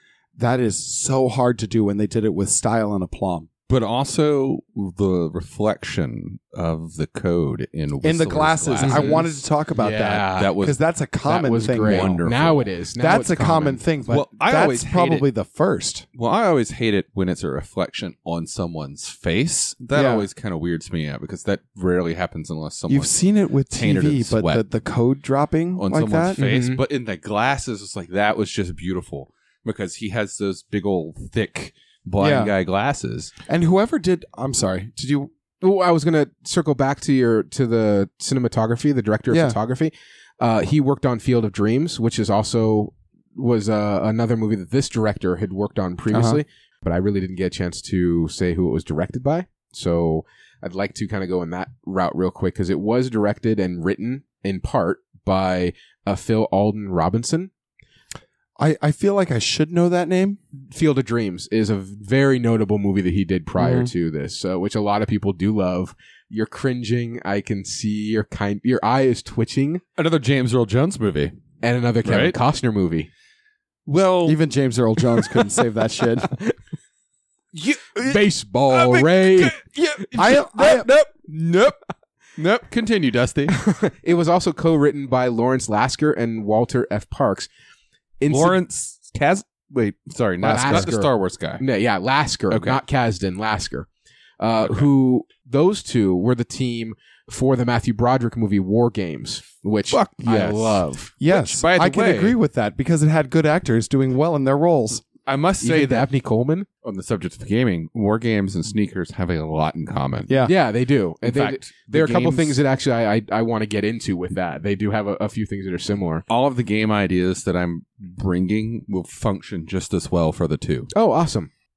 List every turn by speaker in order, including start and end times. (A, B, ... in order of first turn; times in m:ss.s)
0:00.4-0:03.5 A
0:03.7-0:09.2 B
0:08.0-0:12.2 A
0:08.8-0:09.2 C
0:09.8-0:10.5 C
0:10.3-0:10.8 B
0:11.2-0:13.8 C
0:11.8-0:12.7 B
0:13.0-0:16.0 A
0:14.1-0:15.3 B
0:16.1-0:23.2 B
0:19.9-0:20.3 A
0:22.9-0:26.4 A
0:23.7-0:24.6 B
0:25.8-0:33.3 B
0:26.4-0:26.8 C
0:32.2-0:32.5 A
0:33.5-0:35.3 A
0:35.6-0:57.5 C
0:39.3-0:39.6 A
0:46.1-0:46.4 A
0:58.6-1:00.4 A
1:00.6-1:09.8 C
1:03.6-1:03.9 A
1:10.0-1:11.3 B
1:11.6-1:13.1 C
1:12.0-1:12.4 B
1:13.8-1:14.4 B
1:14.2-1:16.3 A
1:17.5-1:21.8 B
1:18.0-1:19.6 C
1:20.1-1:20.9 A
1:22.4-1:23.6 B
1:23.6-1:27.5 C
1:28.2-1:28.6 C
1:28.3-1:31.6 B
1:30.4-1:30.9 A
1:30.4-1:33.9 C
1:32.5-1:32.8 B
1:34.4-1:41.1 C
1:39.9-1:42.4 B
1:41.2-1:45.0 A
1:45.2-1:46.1 B
1:45.6-1:46.7 C
1:46.8-1:50.4 B
1:50.3-1:50.5 A
1:50.4-1:56.2 C
1:51.2-1:52.6 B
1:56.3-2:00.9 B
2:00.9-2:01.5 C